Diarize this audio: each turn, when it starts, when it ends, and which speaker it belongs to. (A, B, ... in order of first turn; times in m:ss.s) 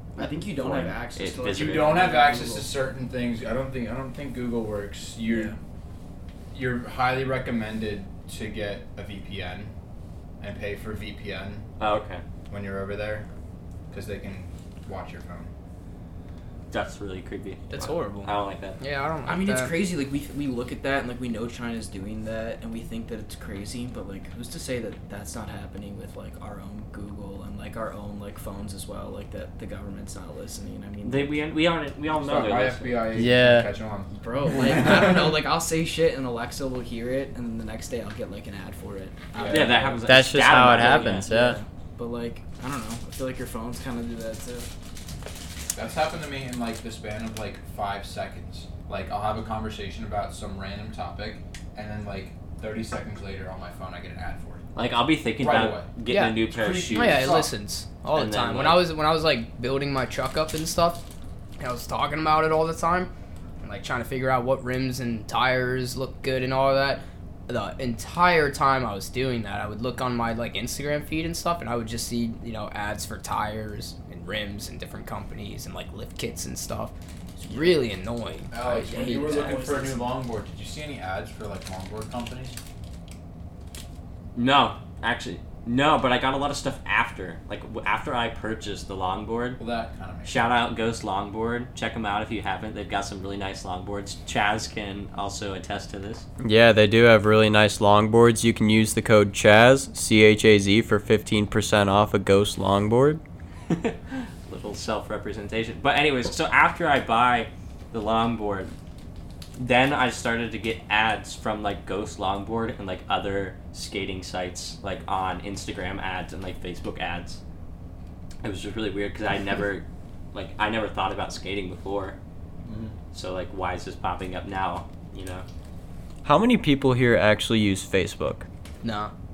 0:00.2-0:02.7 A
0:00.5-0:02.0 B
0:01.5-0:05.5 C
0:05.2-0:05.6 A
0:06.5-0:09.7 C
0:10.4-0:11.6 C
0:11.8-0:12.2 B
0:12.5-0:13.3 C
0:13.9-0:15.5 C
0:16.7-0:18.8 B
0:17.7-0:19.8 D
0:19.2-0:31.3 A
0:31.0-0:33.0 B
0:32.1-0:35.2 C
0:33.1-0:33.7 E
0:34.1-0:44.7 A
0:39.3-0:39.9 C
0:39.5-0:41.3 B
0:40.0-0:41.6 E
0:45.7-0:54.6 C
0:54.7-0:57.4 B
0:55.4-0:55.9 C
0:56.1-1:01.0 D
0:56.5-0:57.5 C
0:58.1-0:58.9 B
1:01.6-1:03.1 D
1:03.6-1:16.9 D
1:17.4-1:17.8 A
1:17.4-1:19.6 D
1:18.5-1:22.6 C
1:18.8-1:20.0 A
1:24.3-1:29.6 B
1:29.6-1:30.5 C
1:30.2-1:36.2 B
1:36.4-1:43.2 E
1:43.7-1:48.7 B
1:49.6-1:57.4 B
1:58.4-2:02.2 B
2:02.6-2:02.9 C
2:03.1-2:05.4 B
2:06.2-2:08.4 E
2:08.8-2:09.1 D